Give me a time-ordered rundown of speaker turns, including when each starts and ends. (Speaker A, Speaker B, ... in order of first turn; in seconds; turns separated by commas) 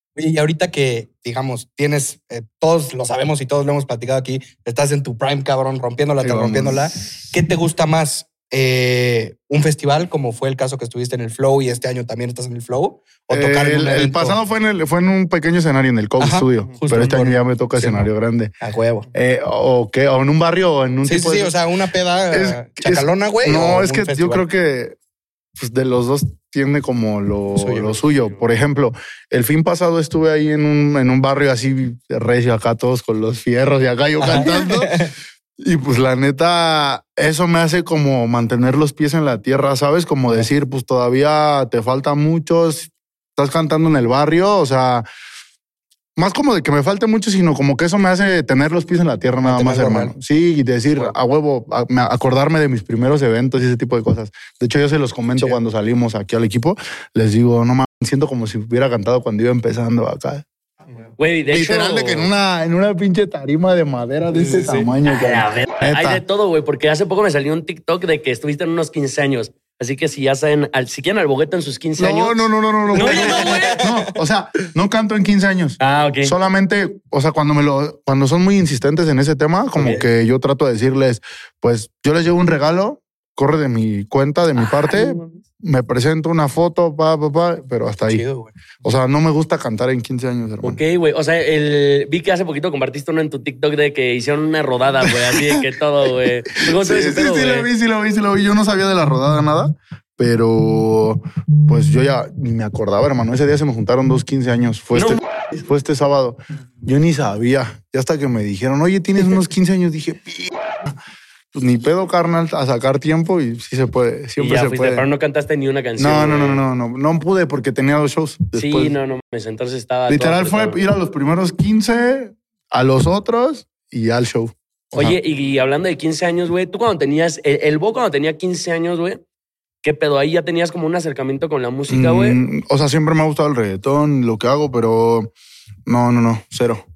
Speaker A: 0.2-14.4, Speaker B: 6.2-6.9, Speaker B: 13.3-18.6, Speaker A: 16.2-18.1, Speaker A: 18.6-19.1, Speaker B: 19.1-21.6, Speaker A: 21.1-24.4, Speaker B: 22.3-25.0, Speaker B: 25.6-45.1, Speaker A: 27.6-28.0, Speaker A: 34.2-35.1, Speaker B: 46.2-60.5, Speaker A: 49.4-50.1, Speaker C: 61.2-62.3, Speaker B: 61.5-66.2, Speaker A: 64.3-64.9, Speaker C: 65.0-73.9, Speaker B: 72.0-88.2, Speaker A: 73.0-74.1, Speaker C: 75.8-76.3, Speaker C: 79.8-80.0, Speaker C: 84.6-85.4, Speaker A: 88.1-88.6, Speaker B: 88.8-90.8, Speaker C: 90.6-97.7, Speaker B: 95.1-95.6, Speaker B: 96.5-111.0, Speaker C: 105.0-105.2, Speaker B: 111.5-115.1, Speaker C: 114.4-116.6, Speaker B: 116.0-119.0, Speaker C: 118.5-120.8, Speaker B: 120.1-125.2, Speaker C: 125.0-129.2, Speaker C: 129.8-132.4, Speaker B: 131.9-135.3, Speaker B: 135.9-136.8